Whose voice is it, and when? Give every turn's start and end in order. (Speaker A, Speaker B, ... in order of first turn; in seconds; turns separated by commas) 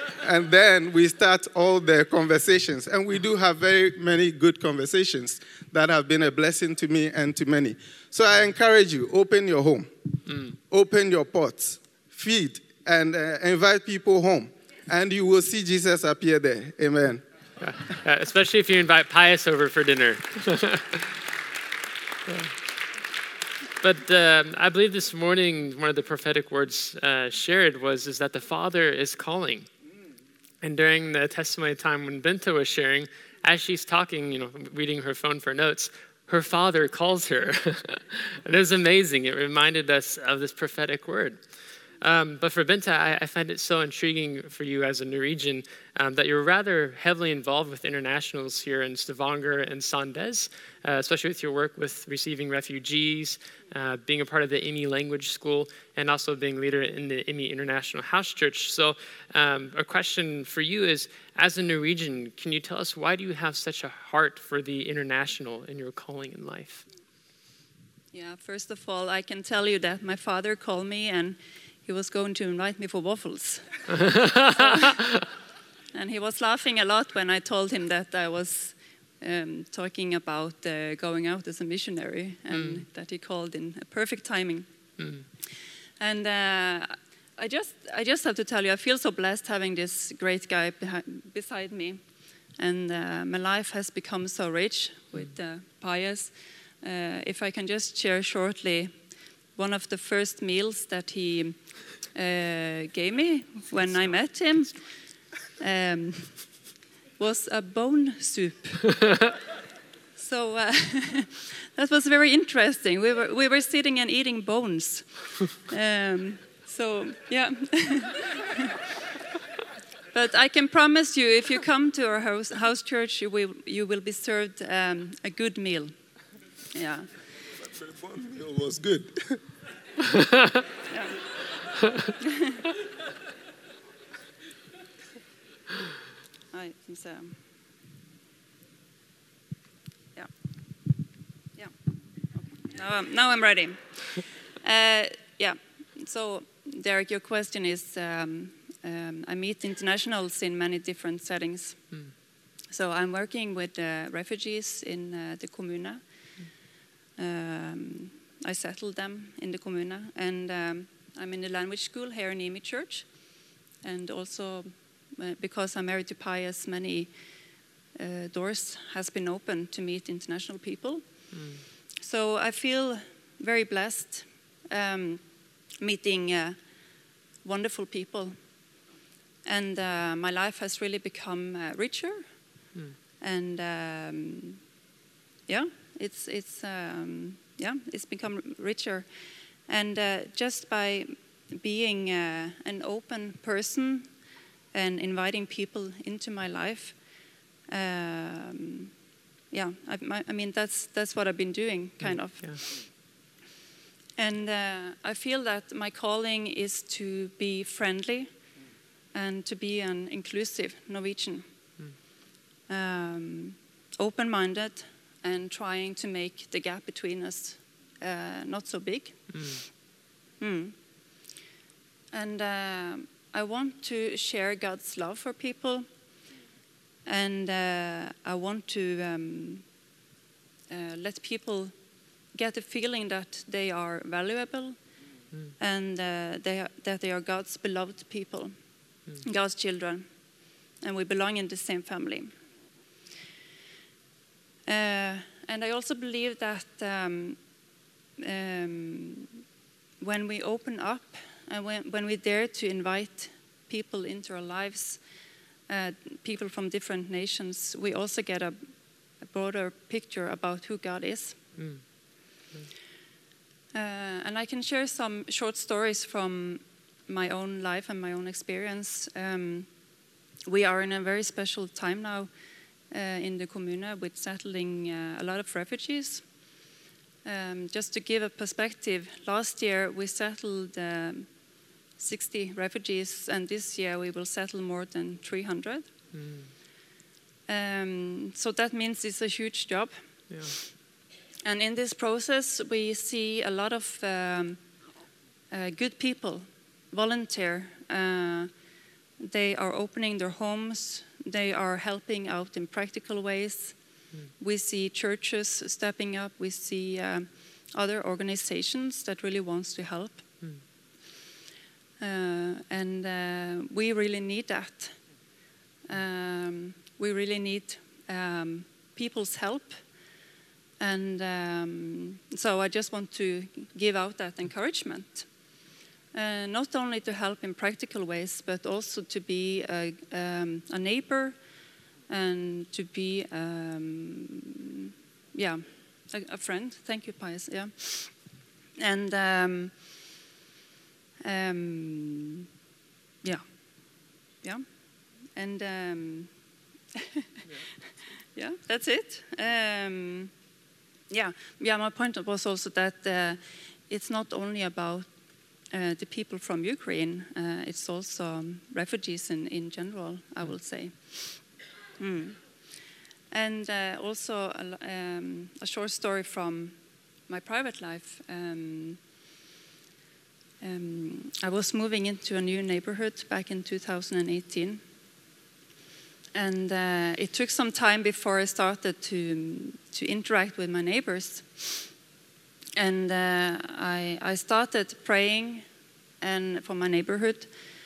Speaker A: 0.2-17.2, Speaker B: 10.3-10.5, Speaker B: 17.6-21.1, Speaker B: 22.3-22.5, Speaker B: 23.8-29.7, Speaker B: 30.6-41.4, Speaker B: 42.0-66.8, Speaker C: 68.1-74.9, Speaker B: 73.9-74.9, Speaker C: 75.9-84.7, Speaker B: 82.5-82.8, Speaker B: 85.0-85.2, Speaker C: 86.0-92.0, Speaker C: 92.5-105.0, Speaker B: 103.7-104.8, Speaker C: 105.6-109.2, Speaker C: 110.2-118.7, Speaker C: 120.1-125.9, Speaker C: 126.7-127.2, Speaker A: 127.6-129.4, Speaker B: 130.1-130.4, Speaker C: 130.9-131.2, Speaker C: 132.3-132.6, Speaker C: 136.5-137.4, Speaker C: 142.3-152.0, Speaker C: 152.7-156.6, Speaker C: 157.2-167.1, Speaker C: 167.9-178.4, Speaker B: 171.3-171.6, Speaker C: 179.4-182.6, Speaker C: 183.2-184.6, Speaker C: 185.5-189.1, Speaker C: 189.6-198.9, Speaker C: 199.5-202.9, Speaker B: 202.0-202.6, Speaker C: 204.2-208.5, Speaker C: 209.1-211.7, Speaker C: 212.7-219.7, Speaker B: 219.3-219.6, Speaker C: 220.4-220.8, Speaker C: 222.1-225.9, Speaker C: 227.0-229.7, Speaker C: 230.7-235.0, Speaker C: 235.6-242.3, Speaker C: 244.7-247.4, Speaker C: 248.2-249.3, Speaker C: 250.0-255.0, Speaker C: 255.7-261.5, Speaker B: 261.6-262.7, Speaker C: 263.7-272.3, Speaker C: 272.9-276.3, Speaker C: 277.2-281.3, Speaker C: 281.9-286.0, Speaker B: 286.1-286.5, Speaker C: 287.5-290.6, Speaker B: 290.3-290.5, Speaker C: 291.4-294.7, Speaker C: 295.5-298.5, Speaker C: 299.2-310.5, Speaker C: 312.0-315.2, Speaker C: 315.9-320.1, Speaker C: 320.8-325.5, Speaker C: 326.1-331.5, Speaker C: 332.1-340.0, Speaker C: 341.2-342.4, Speaker C: 343.2-346.3, Speaker C: 346.9-347.6, Speaker C: 348.3-350.3, Speaker C: 351.1-362.7, Speaker C: 363.3-369.0, Speaker C: 370.6-374.8, Speaker C: 376.3-381.9, Speaker C: 382.8-385.7, Speaker C: 386.2-387.5